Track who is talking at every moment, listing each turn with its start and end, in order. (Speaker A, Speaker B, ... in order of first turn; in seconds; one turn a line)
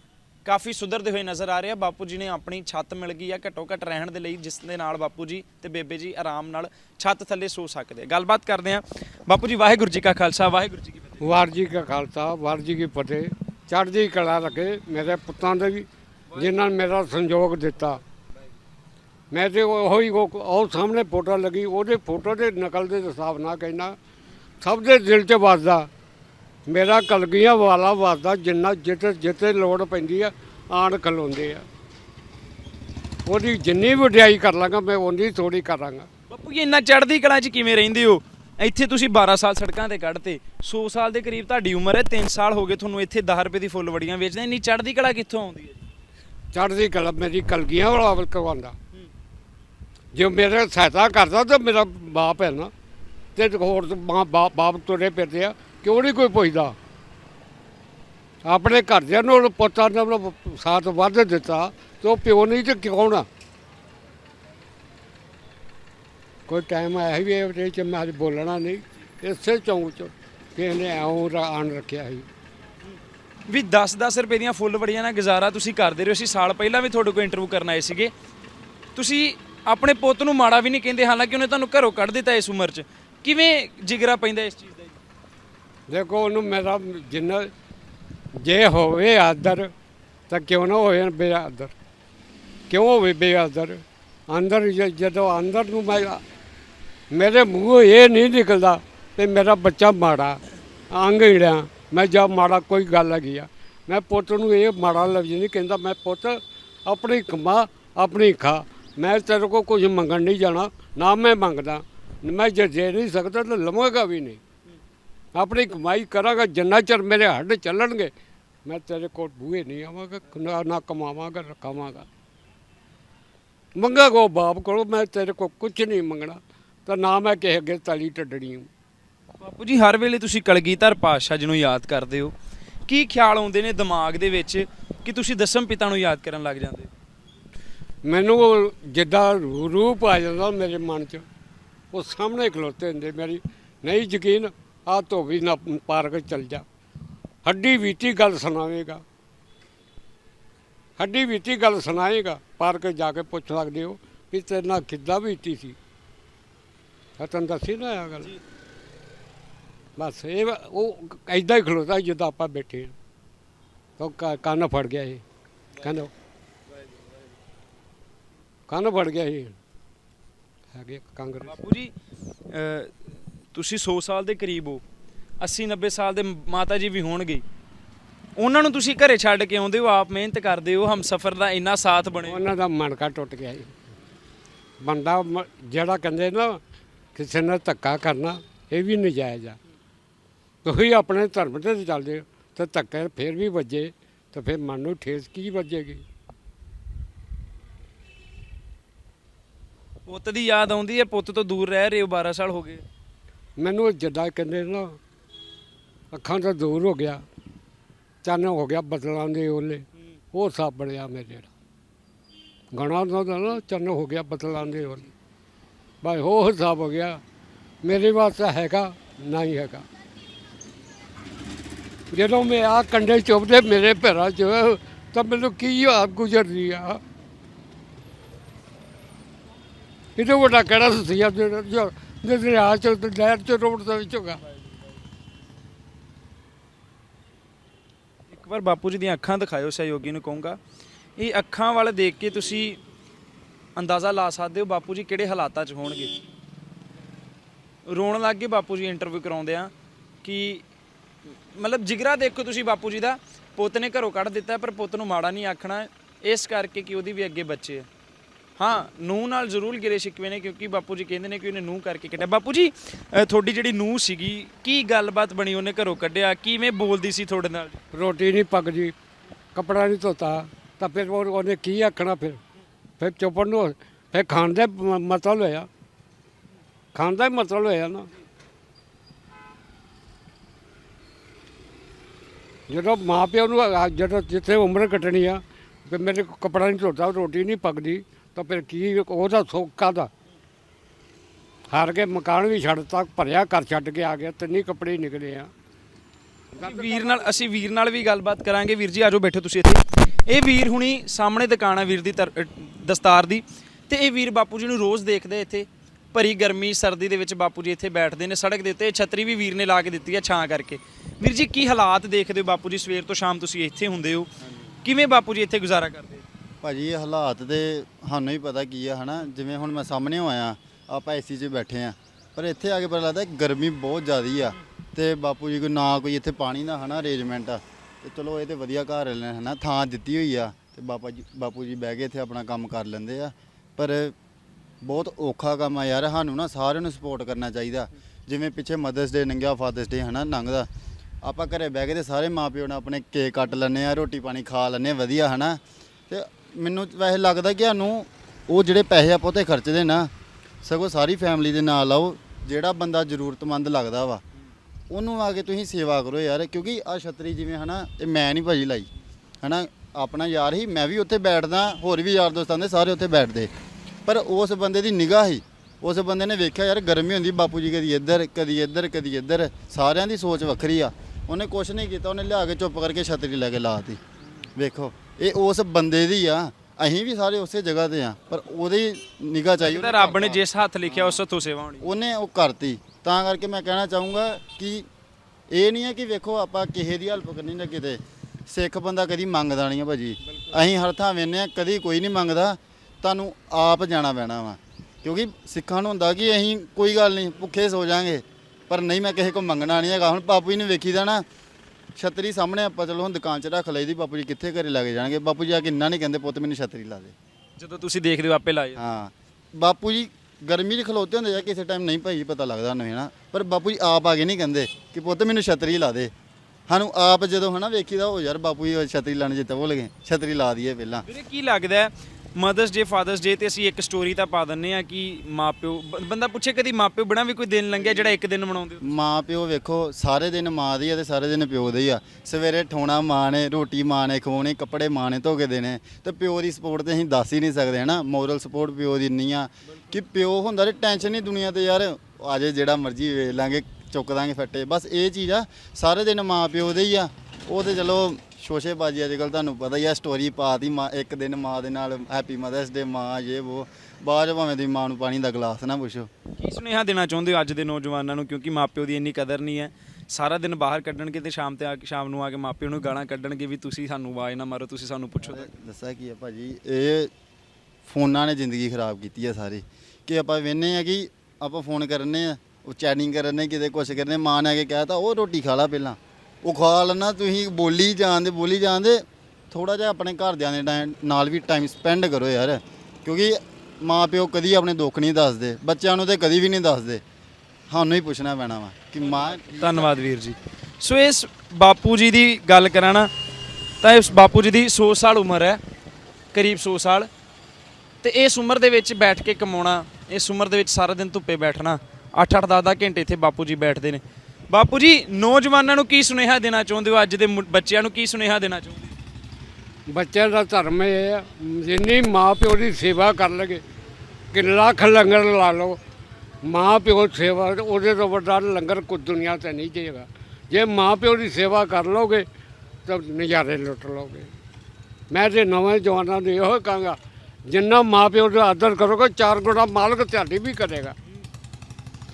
Speaker A: 0.4-11.2
Speaker B: 11.2-18.0
Speaker B: 19.3-23.9
Speaker B: 24.6-25.9
Speaker B: 26.6-31.6
Speaker B: 33.2-36.1
Speaker A: 36.3-45.8
Speaker B: 46.5-48.8
Speaker B: 50.1-52.7
Speaker B: 53.4-56.7
Speaker B: 58.4-63.2
Speaker B: 66.5-72.3
Speaker A: 73.5-78.1
Speaker A: 78.9-85.0
Speaker B: 85.9-87.5
Speaker B: 88.4-89.7
Speaker B: 90.3-91.7
Speaker B: 92.7-96.2
Speaker B: 97.1-100.4
Speaker B: 100.9-114.4
Speaker B: 115.3-118.1
Speaker B: 118.6-122.1
Speaker B: 123.8-128.7
Speaker A: 129.4-132.3
Speaker A: 132.9-136.9
Speaker B: 138.0-141.2
Speaker B: 141.9-146.7
Speaker B: 147.4-149.0
Speaker B: 151.0-155.8
Speaker B: 157.2-158.3
Speaker B: 160.0-162.9
Speaker B: 164.0-165.2
Speaker B: 165.8-166.1
Speaker B: 168.7-169.6
Speaker B: 170.7-171.6
Speaker A: 171.5-171.9
Speaker A: 172.5-174.8
Speaker A: 175.4-177.4
Speaker A: 178.4-182.4
Speaker B: 182.2-183.7
Speaker B: 184.8-186.6
Speaker B: 187.1-189.6
Speaker B: 190.6-196.0
Speaker A: 200.1-202.8
Speaker B: 203.6-205.0
Speaker B: 206.1-207.2
Speaker B: 208.2-211.5
Speaker B: 212.7-215.1
Speaker B: 216.0-217.2
Speaker B: 217.8-219.8
Speaker B: 222.1-227.0
Speaker B: 230.2-234.4
Speaker A: 238.3-240.6
Speaker A: 241.2-242.8
Speaker A: 243.8-246.1
Speaker A: 247.8-249.7
Speaker A: 250.2-250.6
Speaker A: 251.3-257.9
Speaker A: 258.6-267.8
Speaker B: 267.9-268.9
Speaker B: 269.5-272.4
Speaker B: 273.0-275.7
Speaker B: 276.9-278.1
Speaker B: 282.7-290.1
Speaker B: 291.7-295.5
Speaker A: 296.6-314.3
Speaker B: 296.6-297.3
Speaker A: 314.8-316.2
Speaker C: 316.6-334.1
Speaker C: 334.8-340.7
Speaker C: 341.2-350.1
Speaker C: 350.6-354.2
Speaker C: 354.9-358.9
Speaker C: 359.4-363.5
Speaker C: 364.1-374.0
Speaker C: 374.6-381.2
Speaker A: 379.6-381.9
Speaker C: 381.8-384.9
Speaker C: 385.5-401.2
Speaker C: 401.9-407.1
Speaker A: 407.6-408.8
Speaker C: 408.8-416.1
Speaker C: 416.7-421.1
Speaker A: 421.1-428.8
Speaker C: 428.8-456.1
Speaker A: 456.4-465.5
Speaker C: 465.2-467.1
Speaker C: 467.8-487.0
Speaker C: 487.7-489.9
Speaker A: 489.2-493.1
Speaker A: 493.8-495.6
Speaker A: 496.3-497.1
Speaker A: 498.0-508.9
Speaker B: 509.9-513.6
Speaker B: 514.3-515.8
Speaker B: 516.4-522.2
Speaker B: 522.8-524.3
Speaker B: 525.1-531.0